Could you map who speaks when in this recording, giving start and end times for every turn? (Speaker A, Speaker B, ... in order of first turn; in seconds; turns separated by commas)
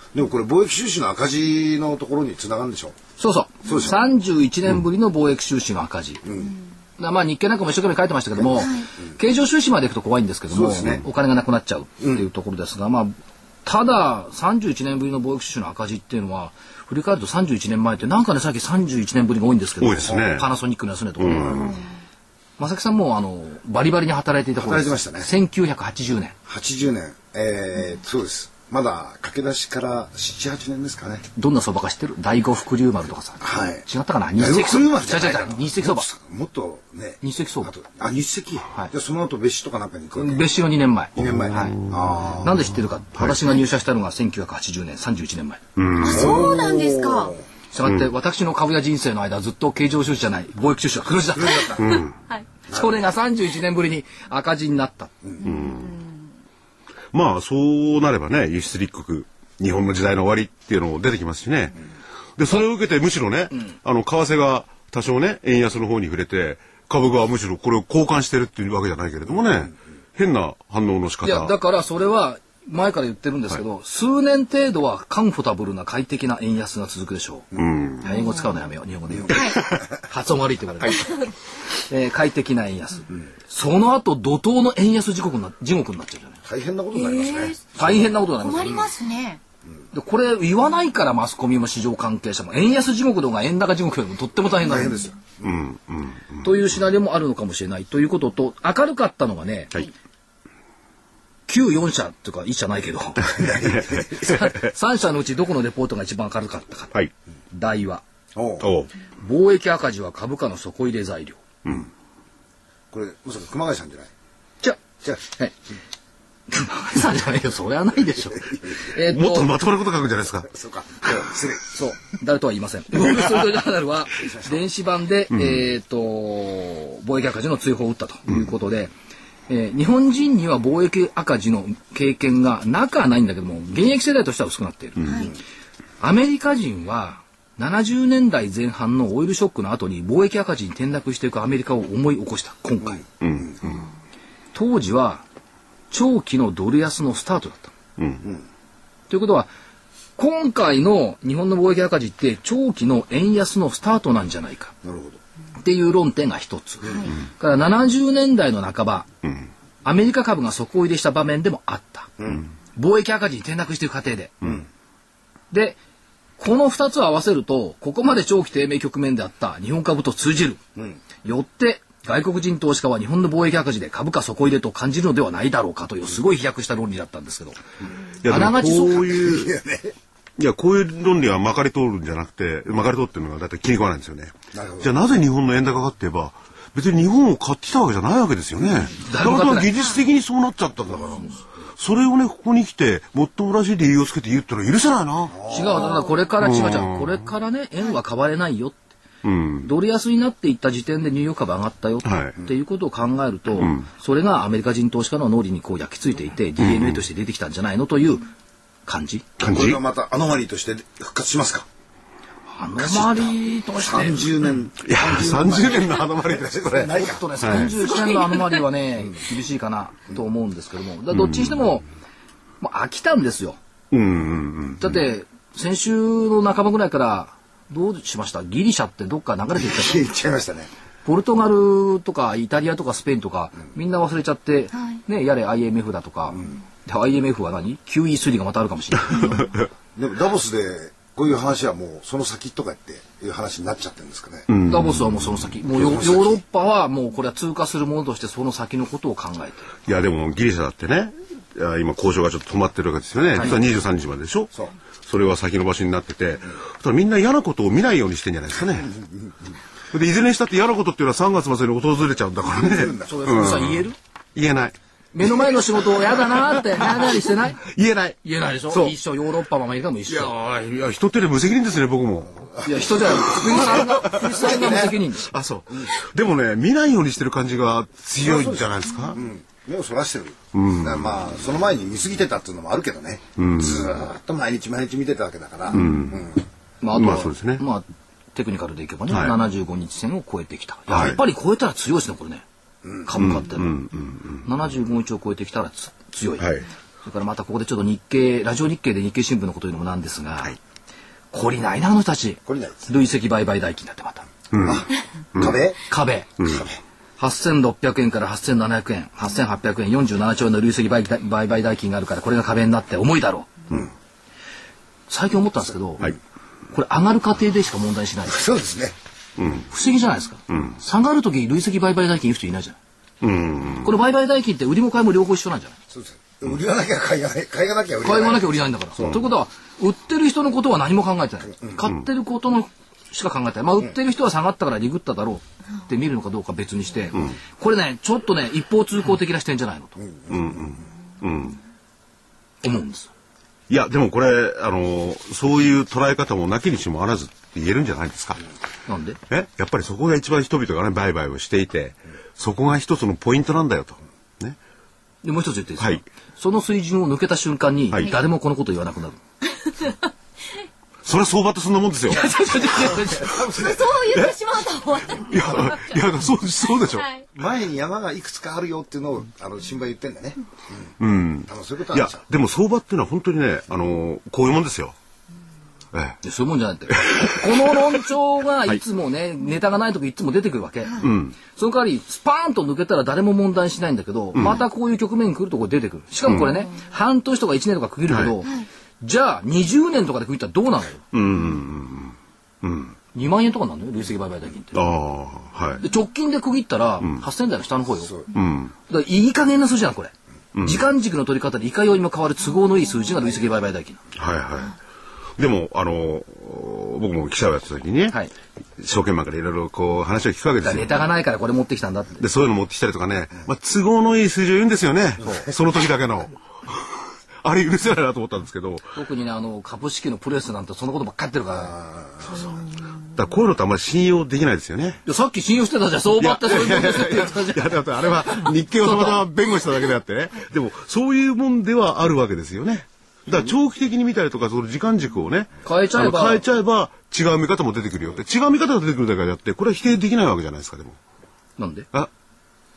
Speaker A: 0.1-3.0, Speaker B: 3.2-6.2, Speaker A: 3.6-4.0, Speaker A: 6.2-6.5, Speaker B: 7.0-21.8, Speaker A: 10.5-11.0, Speaker A: 12.0-12.3, Speaker C: 19.8-20.5, Speaker C: 21.2-21.8, Speaker B: 22.6-26.4, Speaker A: 24.6-25.3, Speaker A: 26.5-31.2, Speaker B: 31.4-36.1, Speaker A: 33.4-33.8, Speaker A: 34.4-40.5, Speaker B: 37.2-37.7, Speaker B: 40.1-41.8, Speaker A: 41.2-42.6, Speaker C: 41.2-42.0, Speaker B: 42.4-45.6, Speaker C: 45.8-46.6, Speaker D: 46.0-47.4, Speaker A: 46.0-47.4, Speaker B: 47.7-52.0, Speaker C: 47.8-48.1, Speaker A: 51.3-52.0, Speaker C: 51.8-52.2, Speaker B: 52.7-55.3, Speaker C: 55.4-56.0, Speaker D: 55.5-56.0, Speaker C: 57.1-61.8, Speaker C: 62.4-71.5, Speaker B: 71.2-77.5, Speaker C: 77.6-78.1, Speaker B: 78.0-81.3, Speaker D: 79.3-79.6, Speaker B: 81.9-86.4, Speaker A: 86.5-87.6, Speaker D: 87.0-87.6, Speaker B: 87.7-88.9, Speaker D: 88.4-89.4, Speaker B: 89.9-95.0, Speaker A: 94.6-95.2, Speaker C: 95.4-96.5, Speaker B: 96.4-99.8, Speaker B: 101.5-107.0, Speaker C: 103.4-104.6, Speaker B: 107.5-108.0, Speaker A: 108.3-108.7, Speaker C: 108.6-108.9, Speaker B: 109.2-111.4, Speaker A: 112.9-114.1, Speaker B: 114.6-115.5, Speaker B: 116.5-119.5, Speaker C: 119.0-120.5, Speaker A: 120.5-121.7, Speaker B: 121.7-128.9, Speaker A: 124.1-124.6, Speaker C: 125.3-125.7, Speaker B: 129.5-135.3, Speaker B: 136.0-143.0, Speaker C: 143.2-143.8, Speaker B: 144.5-145.2, Speaker B: 145.9-147.7, Speaker C: 148.0-148.3, Speaker B: 149.1-149.5, Speaker B: 150.2-154.7, Speaker A: 154.8-155.2, Speaker B: 155.6-159.1, Speaker B: 159.8-162.2, Speaker B: 162.8-164.4, Speaker B: 165.5-165.8, Speaker B: 166.4-170.6, Speaker B: 171.2-177.6, Speaker C: 178.2-179.5, Speaker B: 178.2-179.3, Speaker A: 179.2-179.9, Speaker C: 180.4-195.4, Speaker A: 184.5-185.0, Speaker B: 189.0-189.8, Speaker A: 195.3-195.9, Speaker B: 195.5-198.8, Speaker C: 196.4-197.2, Speaker C: 199.2-199.7, Speaker B: 199.6-208.3, Speaker C: 202.0-202.4, Speaker C: 203.6-203.9, Speaker C: 206.6-207.0, Speaker B: 208.9-209.3, Speaker C: 209.4-209.8, Speaker A: 209.5-211.7, Speaker B: 212.5-214.3, Speaker A: 212.8-213.3, Speaker A: 213.9-217.7, Speaker C: 214.8-217.7, Speaker B: 217.0-221.8, Speaker C: 221.1-221.5, Speaker B: 222.6-223.6, Speaker C: 223.9-224.9, Speaker B: 224.8-230.1, Speaker A: 229.7-230.7, Speaker B: 231.1-239.4, Speaker C: 239.2-239.7, Speaker A: 240.0-244.5, Speaker C: 244.5-245.4, Speaker B: 244.7-249.7, Speaker A: 245.8-246.1, Speaker C: 249.9-254.5, Speaker C: 255.0-259.0, Speaker C: 259.9-264.8, Speaker A: 262.4-263.1, Speaker B: 263.1-264.0, Speaker B: 265.1-267.7, Speaker C: 267.6-268.9, Speaker B: 268.2-270.4, Speaker C: 270.1-272.4, Speaker B: 272.6-275.3, Speaker C: 273.2-279.2, Speaker A: 278.2-286.4, Speaker C: 280.5-281.2, Speaker C: 283.4-283.9, Speaker C: 285.7-286.2, Speaker B: 286.8-292.4, Speaker C: 286.9-287.6, Speaker C: 289.1-289.3, Speaker C: 290.9-291.2, Speaker A: 292.8-293.1, Speaker B: 293.1-293.8, Speaker C: 293.2-294.5, Speaker B: 294.4-296.5, Speaker C: 296.4-296.7, Speaker B: 297.1-300.6, Speaker B: 301.3-304.3, Speaker A: 302.5-302.9, Speaker C: 304.5-304.9, Speaker A: 304.6-305.8, Speaker C: 305.4-305.6, Speaker B: 305.9-306.4, Speaker C: 306.4-306.6, Speaker A: 306.4-306.8, Speaker B: 307.2-313.5, Speaker B: 315.1-316.1, Speaker B: 316.7-318.4, Speaker A: 318.3-319.0, Speaker C: 319.4-319.7, Speaker B: 319.7-322.8, Speaker C: 320.5-320.8, Speaker C: 323.2-323.9, Speaker B: 323.8-325.8, Speaker A: 325.9-328.6, Speaker B: 328.0-340.0, Speaker A: 340.1-340.7, Speaker C: 340.3-341.6, Speaker B: 342.6-343.1, Speaker C: 343.7-348.4, Speaker B: 348.9-349.2, Speaker C: 349.3-354.6, Speaker B: 355.2-359.2, Speaker C: 361.1-362.4, Speaker B: 362.1-363.4, Speaker D: 362.5-366.0, Speaker A: 363.2-364.0, Speaker C: 364.1-364.4, Speaker C: 365.2-367.1, Speaker D: 366.8-367.2, Speaker A: 367.3-370.8, Speaker C: 371.0-375.0, Speaker A: 371.5-372.2, Speaker C: 375.9-376.2, Speaker B: 376.2-391.1, Speaker C: 376.9-378.0, Speaker C: 381.0-381.4, Speaker C: 384.3-384.6, Speaker C: 386.3-386.5, Speaker C: 391.1-392.9, Speaker B: 393.1-395.0, Speaker C: 394.8-395.8, Speaker B: 395.8-398.2, Speaker C: 398.3-398.7, Speaker B: 398.9-400.1, Speaker C: 400.6-400.9, Speaker B: 400.6-404.0, Speaker C: 404.1-404.8, Speaker C: 405.4-408.2, Speaker C: 408.8-410.9, Speaker B: 410.6-412.2, Speaker C: 412.2-416.8, Speaker C: 417.4-418.9, Speaker B: 418.9-421.8, Speaker A: 421.6-422.4, Speaker C: 423.1-425.0, Speaker B: 425.1-427.7, Speaker C: 426.2-441.0, Speaker B: 428.8-429.2, Speaker B: 435.6-436.4, Speaker B: 441.6-441.9